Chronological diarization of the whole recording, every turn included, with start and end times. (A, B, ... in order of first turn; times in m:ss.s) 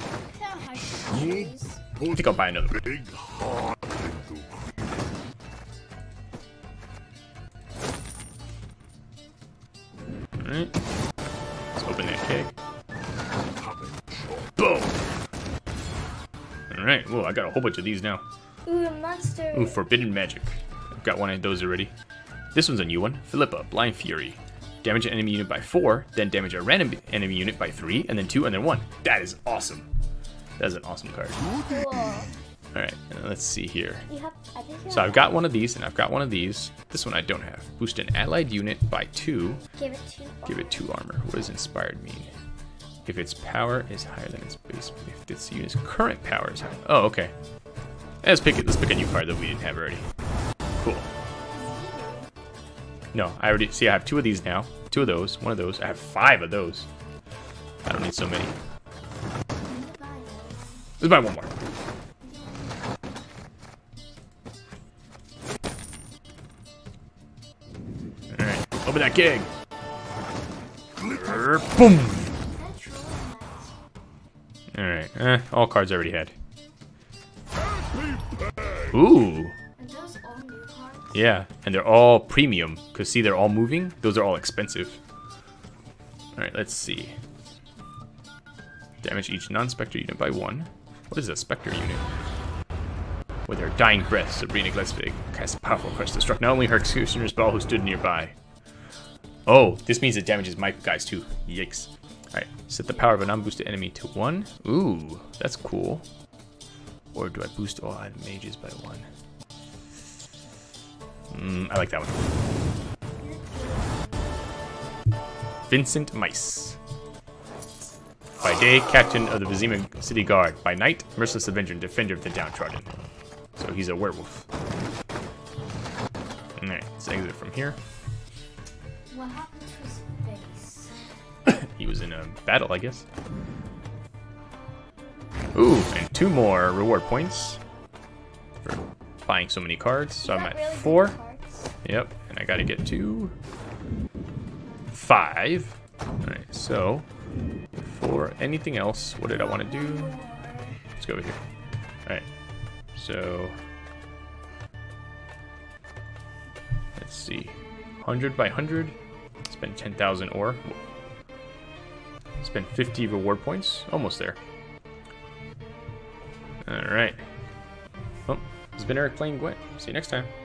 0:00.3-0:01.8 A
0:02.0-0:03.1 B
0:10.4-0:10.8 B
0:11.7-0:12.5 B
0:14.6-0:15.0 B
0:16.7-0:18.2 B
0:18.6-0:19.8 A
0:19.5-0:21.9 B
0:22.5-0:29.9 B
0:30.6-0:31.5 B
0:31.6-0:32.3 A
0:32.7-0:34.0 B
0:34.1-0:35.3 A
0:34.9-0:39.6 B
0:39.7-0:40.8 A
0:40.4-0:42.3 B
0:43.0-0:47.3 B
0:48.2-0:50.0 B
0:50.8-0:51.1 B
0:51.5-0:52.3 A
0:53.1-0:56.9 B
0:57.8-0:58.6 B
0:59.6-1:00.8 A
1:01.0-1:01.5 B
1:02.2-1:02.7 A
1:08.3-1:09.5 B
1:11.1-1:12.3 B
1:12.5-1:13.7 A
1:14.7-1:16.3 B
1:18.8-1:19.5 B
1:19.8-1:21.2 A
1:21.1-1:25.0 B
1:26.4-1:27.2 B
1:29.0-1:32.0 B
1:33.5-1:38.3 B
1:39.5-1:46.0 B
1:42.9-1:43.4 A
1:47.1-1:49.1 B
1:51.3-1:52.2 B
1:53.2-1:54.4 A
1:55.7-1:56.8 B
1:58.4-2:03.0 B
2:03.6-2:04.5 B
2:06.6-2:07.8 B
2:09.1-2:11.0 A
2:11.4-2:13.1 B
2:15.5-2:17.6 B
2:18.6-2:21.2 B
2:20.2-2:21.7 A
2:21.8-2:23.3 B
2:24.9-2:27.1 B
2:27.8-2:30.2 B
2:29.3-2:30.8 A
2:31.0-2:31.4 B
2:32.9-2:33.6 B
2:37.0-2:38.9 B
2:39.5-2:40.8 B
2:42.4-2:44.4 B
2:46.6-2:47.2 B
2:48.3-2:50.3 B